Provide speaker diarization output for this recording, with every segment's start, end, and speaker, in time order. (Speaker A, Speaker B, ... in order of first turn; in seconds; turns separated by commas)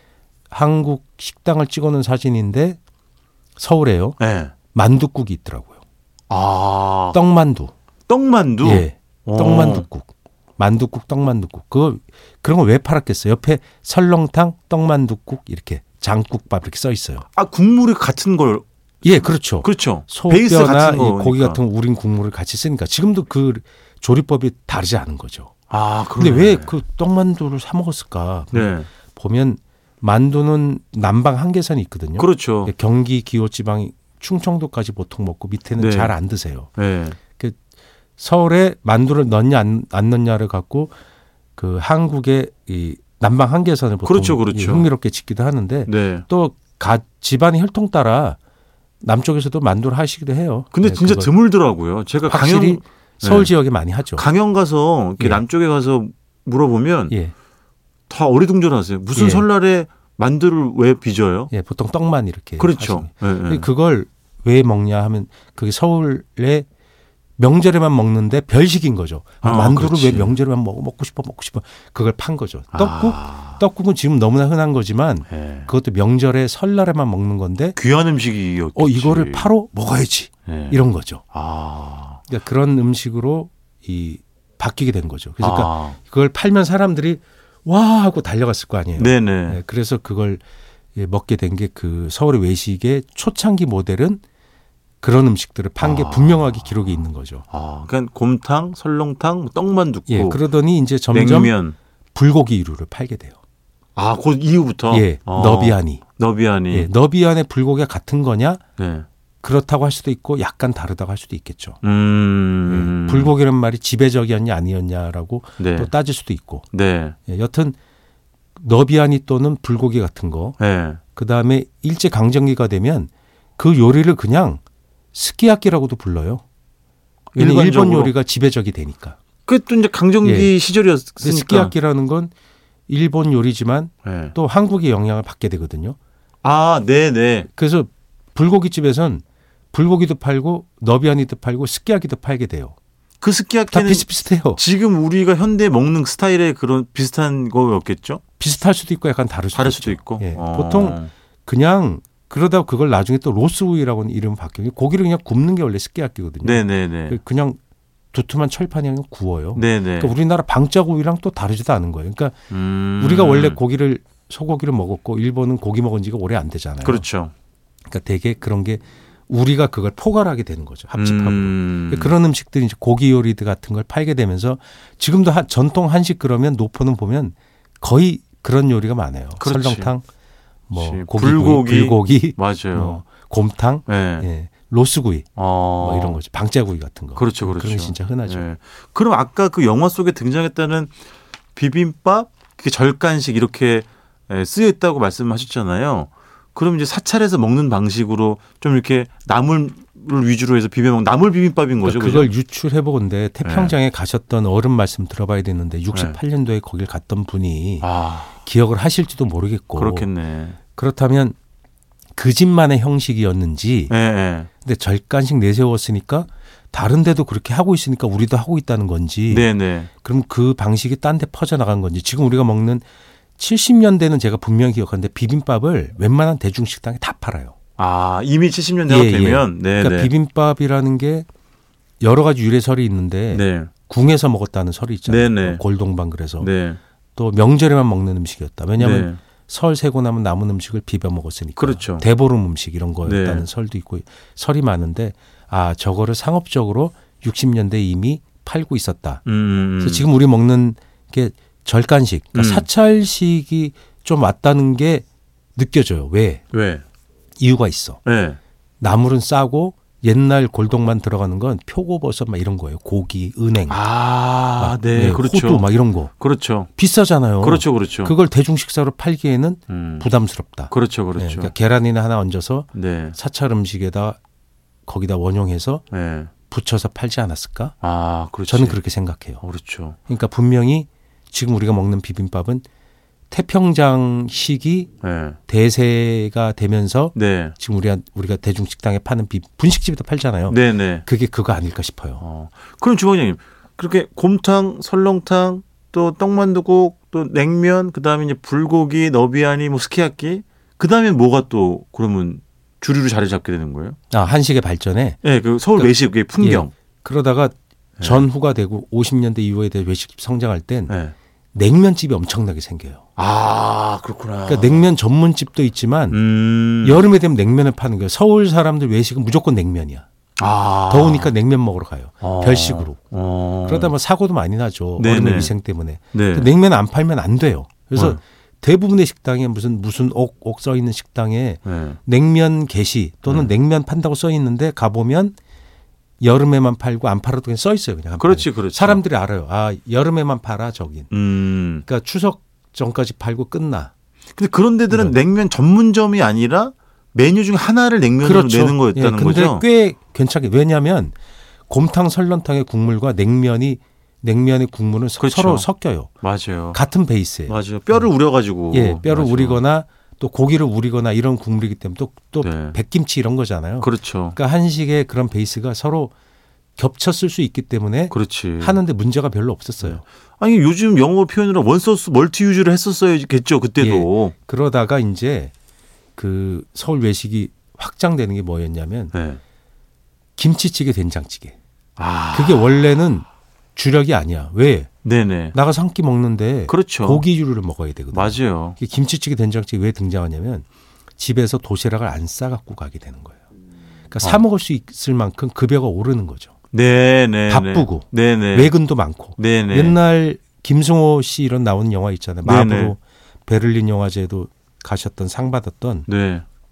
Speaker A: 0.5-2.8, Speaker A: 3.6-4.2, Speaker B: 4.2-4.5, Speaker A: 4.7-5.8, Speaker B: 6.3-7.2, Speaker A: 7.1-7.7, Speaker B: 8.1-9.9, Speaker A: 8.6-17.2, Speaker B: 17.3-21.6, Speaker A: 19.0-25.5, Speaker B: 25.7-26.7, Speaker A: 26.2-36.7, Speaker B: 28.5-28.9, Speaker B: 32.2-32.7, Speaker B: 35.8-36.1, Speaker B: 36.7-37.2, Speaker A: 37.3-37.6, Speaker A: 38.2-40.9, Speaker A: 41.5-48.4, Speaker B: 44.0-44.9, Speaker B: 45.9-46.2, Speaker A: 49.0-51.3, Speaker B: 50.7-53.5, Speaker A: 52.2-54.2, Speaker B: 54.0-57.1, Speaker B: 58.1-61.5, Speaker A: 59.1-59.5, Speaker A: 61.5-66.7, Speaker B: 62.6-63.7, Speaker A: 67.4-77.8, Speaker B: 69.4-70.3, Speaker B: 72.7-73.6, Speaker B: 75.3-75.7, Speaker B: 77.8-79.5, Speaker A: 78.7-81.2, Speaker B: 80.5-80.8, Speaker B: 81.3-82.2, Speaker A: 82.3-90.4, Speaker B: 85.4-86.0, Speaker B: 89.0-89.6, Speaker A: 90.9-94.2, Speaker A: 95.0-97.4, Speaker B: 95.8-96.9, Speaker B: 97.5-100.4, Speaker A: 100.1-101.5, Speaker B: 101.1-101.8, Speaker A: 102.1-103.4, Speaker B: 104.0-106.9, Speaker A: 104.9-106.0, Speaker A: 106.7-108.6, Speaker B: 108.8-109.0, Speaker A: 109.4-111.8, Speaker B: 111.8-113.3, Speaker A: 112.7-116.7, Speaker B: 115.6-115.9, Speaker B: 116.7-117.2, Speaker A: 117.2-117.8, Speaker A: 118.5-120.6, Speaker B: 120.6-121.0, Speaker A: 121.1-124.6, Speaker A: 125.1-126.4, Speaker B: 127.3-128.1, Speaker A: 127.3-129.2, Speaker B: 129.5-131.7, Speaker A: 130.2-130.5, Speaker A: 131.2-132.3, Speaker A: 132.9-136.0, Speaker B: 134.0-134.3, Speaker B: 136.4-137.5, Speaker A: 137.5-142.7, Speaker B: 143.2-148.2, Speaker A: 143.7-144.6, Speaker A: 148.4-157.6, Speaker B: 149.5-151.1, Speaker B: 156.4-157.2, Speaker A: 158.1-162.4, Speaker B: 159.5-160.2, Speaker B: 162.5-163.6, Speaker A: 163.0-167.0, Speaker B: 166.8-167.3, Speaker A: 167.9-180.1, Speaker B: 170.9-172.2, Speaker B: 179.4-179.9, Speaker A: 180.7-188.4, Speaker B: 180.8-183.0, Speaker B: 183.8-184.3, Speaker B: 185.4-186.2, Speaker B: 187.2-190.9, Speaker B: 191.6-202.3, Speaker A: 201.8-210.1, Speaker B: 203.4-203.7, Speaker B: 205.9-206.2, Speaker B: 207.8-208.3, Speaker B: 209.8-210.6, Speaker A: 210.7-211.3, Speaker A: 212.2-213.9, Speaker B: 213.9-214.5, Speaker A: 214.6-222.8, Speaker B: 219.3-219.9, Speaker A: 223.4-227.5, Speaker B: 227.8-230.1, Speaker A: 228.9-231.3, Speaker A: 232.0-236.5, Speaker B: 233.3-233.7, Speaker B: 235.1-235.6, Speaker B: 236.4-236.8, Speaker A: 237.2-249.2, Speaker B: 238.8-239.2, Speaker B: 241.6-242.1, Speaker B: 243.0-243.5, Speaker B: 249.2-250.1, Speaker A: 249.8-255.0, Speaker B: 252.3-252.7, Speaker A: 255.6-256.4, Speaker B: 256.5-256.8, Speaker A: 257.4-258.0, Speaker B: 258.0-258.4, Speaker A: 258.8-263.8, Speaker B: 263.7-266.7, Speaker A: 264.6-266.1, Speaker A: 266.8-274.2, Speaker B: 267.4-268.1, Speaker B: 269.7-270.1, Speaker B: 270.7-271.5, Speaker B: 272.7-273.2, Speaker A: 274.9-275.8, Speaker B: 275.9-276.3, Speaker A: 276.5-277.7, Speaker B: 277.8-278.8, Speaker A: 278.5-279.4, Speaker B: 279.4-280.0, Speaker A: 280.1-282.6, Speaker A: 283.3-284.9, Speaker B: 285.0-285.4, Speaker A: 285.5-292.2, Speaker B: 287.1-287.6, Speaker B: 290.5-291.1, Speaker B: 292.2-304.0, Speaker A: 304.1-305.2, Speaker B: 305.2-306.7, Speaker A: 305.7-311.0, Speaker B: 308.0-308.3, Speaker B: 310.9-311.1, Speaker A: 311.5-313.0, Speaker B: 313.2-314.9, Speaker A: 314.4-316.2, Speaker B: 316.1-317.0, Speaker A: 316.8-320.1, Speaker B: 320.4-321.3, Speaker A: 320.9-323.0, Speaker B: 322.2-323.9, Speaker A: 323.6-335.4, Speaker B: 325.0-325.5, Speaker B: 326.1-326.5, Speaker B: 327.9-328.2, Speaker B: 331.6-332.0, Speaker B: 333.2-333.5, Speaker A: 336.2-341.1, Speaker B: 338.2-339.0, Speaker B: 341.1-341.8, Speaker A: 341.8-343.9, Speaker B: 344.4-349.6, Speaker A: 348.2-351.1, Speaker A: 351.7-356.1, Speaker B: 355.2-355.7, Speaker B: 356.2-356.8, Speaker A: 356.7-358.1, Speaker B: 357.5-359.6, Speaker A: 358.7-366.1, Speaker B: 362.4-362.8, Speaker B: 363.8-364.4, Speaker A: 366.8-370.0, Speaker B: 368.1-368.8, Speaker B: 369.8-374.3, Speaker A: 373.8-375.5, Speaker A: 376.2-379.1, Speaker B: 379.1-379.4, Speaker A: 380.4-381.5, Speaker B: 382.0-382.9, Speaker A: 382.3-384.9, Speaker B: 385.0-385.6, Speaker A: 385.5-390.6, Speaker B: 386.7-387.2, Speaker B: 388.1-388.8, Speaker A: 391.2-393.4, Speaker A: 394.1-396.5, Speaker B: 396.7-398.7, Speaker A: 397.5-406.1, Speaker B: 399.4-400.0, Speaker B: 402.4-402.9, Speaker B: 406.1-406.4